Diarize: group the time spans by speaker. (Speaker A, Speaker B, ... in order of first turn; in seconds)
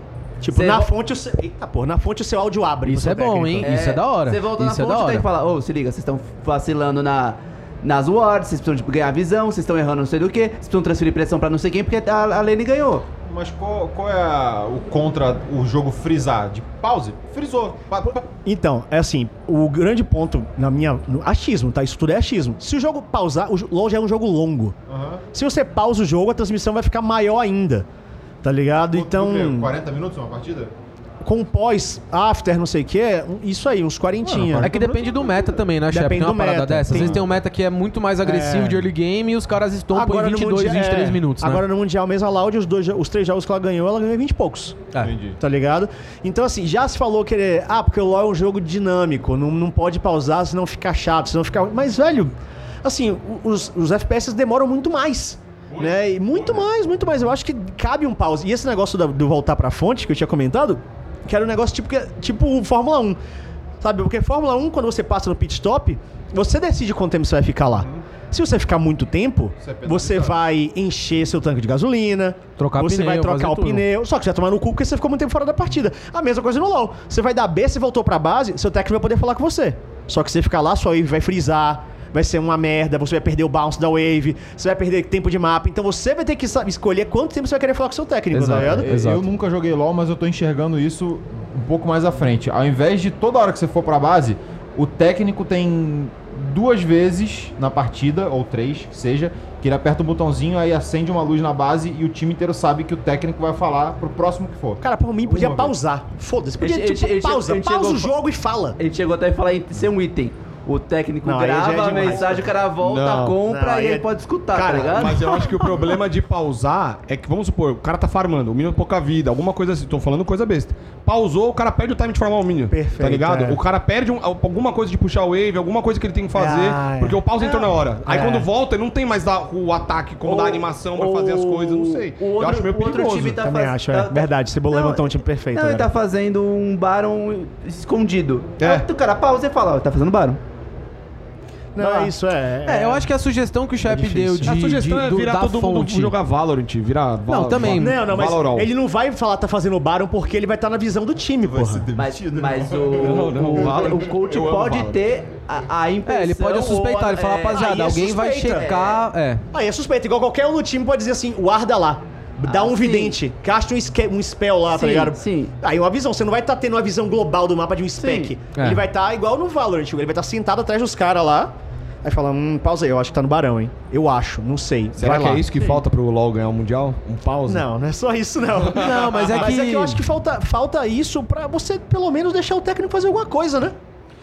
Speaker A: 0.4-3.7, 18.1-24.8, 25.3-27.9, 28.4-29.7, 31.2-34.9, 35.9-37.2, 38.2-38.9, 39.9-52.3, 52.8-63.2, 63.8-88.9, 104.8-108.8, 111.2-112.5, 113.4-115.6, 122.7-123.6, 126.3-128.5, 133.4-135.9, 141.8-143.1, 143.9-144.5, 147.7-151.9, 157.2-158.9, 159.5-175.8, 177.5-183.8
Speaker B: 0.5-0.9, 3.6-13.1, 106.6-108.1, 108.8-115.5, 130.2-140.4, 151.9-157.5, 162.4-163.2, 164.7-165.5, 168.0-168.3
Speaker C: 2.9-5.3, 34.6-41.6, 72.6-73.8, 88.3-89.3, 141.8-142.1, 142.7-146.1, 147.3-148.0, 156.1-159.4, 178.7-180.0
Speaker D: 13.2-18.2, 24.9-25.2, 28.9-30.7, 34.2-35.5, 36.9-37.4, 45.0-45.4, 69.6-70.4, 88.4-105.8, 151.4-154.1
Speaker E: 55.7-56.6, 111.8-113.4, 114.8-133.4, 138.6-138.9, 144.4-148.7, 153.0-155.0, 175.0-177.7, 178.6-179.4